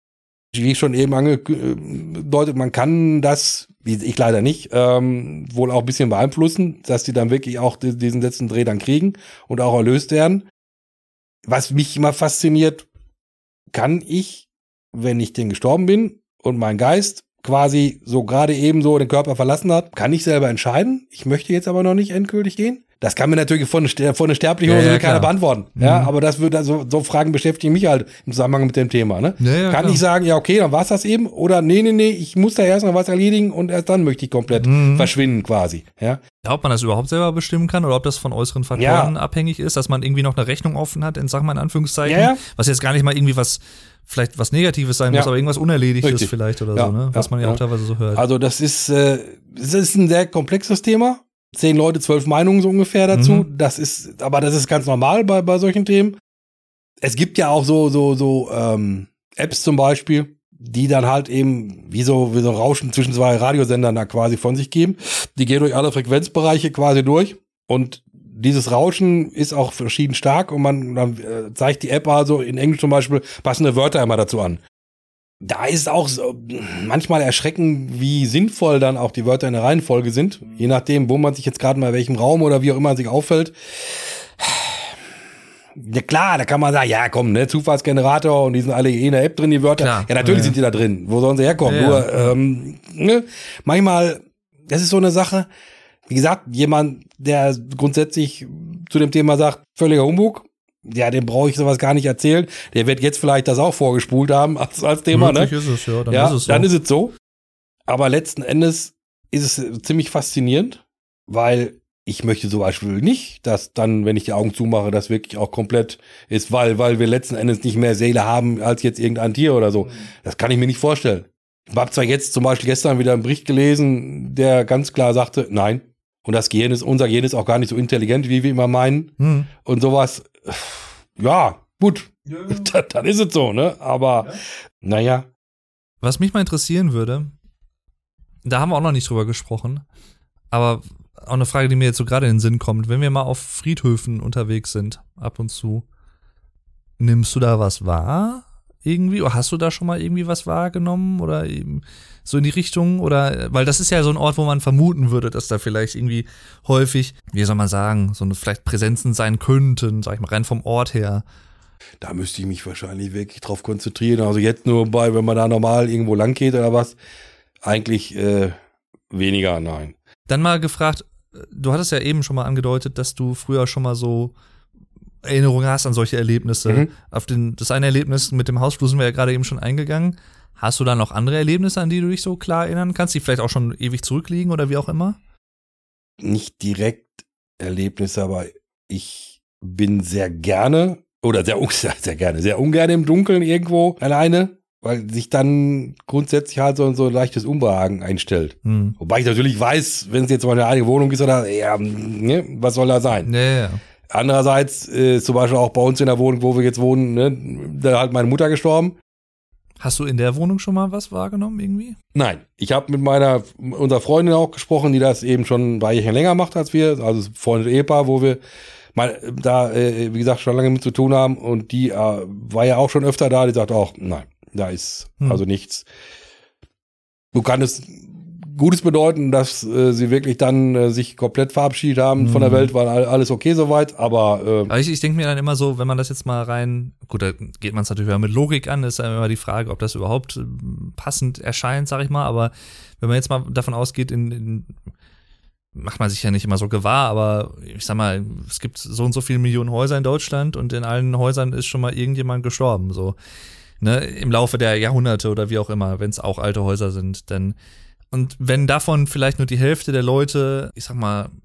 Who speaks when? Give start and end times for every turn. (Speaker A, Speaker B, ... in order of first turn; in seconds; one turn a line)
Speaker A: 0.5-10.5
Speaker A: 11.4-12.9
Speaker A: 13.7-36.2
Speaker B: 24.6-26.1
Speaker B: 29.4-30.0
Speaker B: 34.6-35.1
Speaker B: 36.4-48.2
Speaker A: 38.8-39.1
Speaker A: 42.0-42.4
Speaker A: 46.0-47.6
Speaker A: 48.1-56.2
Speaker B: 53.1-53.5
Speaker A: 57.0-74.6
Speaker A: 75.4-85.0
Speaker A: 85.8-95.5
Speaker B: 89.8-90.6
Speaker B: 91.7-92.3
Speaker A: 96.1-105.5
Speaker B: 105.1-106.7
Speaker A: 106.1-107.1
Speaker A: 107.9-129.1
Speaker B: 129.2-129.5
Speaker A: 129.6-135.3
Speaker B: 132.3-132.7
Speaker B: 136.0-137.3
Speaker B: 138.4-139.8
Speaker B: 140.5-145.8
Speaker B: 147.0-161.2
Speaker A: 162.0-167.0
Speaker A: 167.6-168.5
Speaker A: 169.1-169.9
Speaker B: 170.3-174.3
Speaker B: 175.2-185.2
Speaker A: 186.2-203.3
Speaker B: 198.6-198.9
Speaker B: 203.2-203.8
Speaker A: 204.1-209.0
Speaker B: 209.8-212.0
Speaker A: 212.1-218.4
Speaker A: 218.9-225.8
Speaker A: 227.3-234.7
Speaker B: 232.2-232.7
Speaker B: 234.7-244.7
Speaker B: 245.8-253.2
Speaker B: 253.8-257.6
Speaker B: 258.1-261.3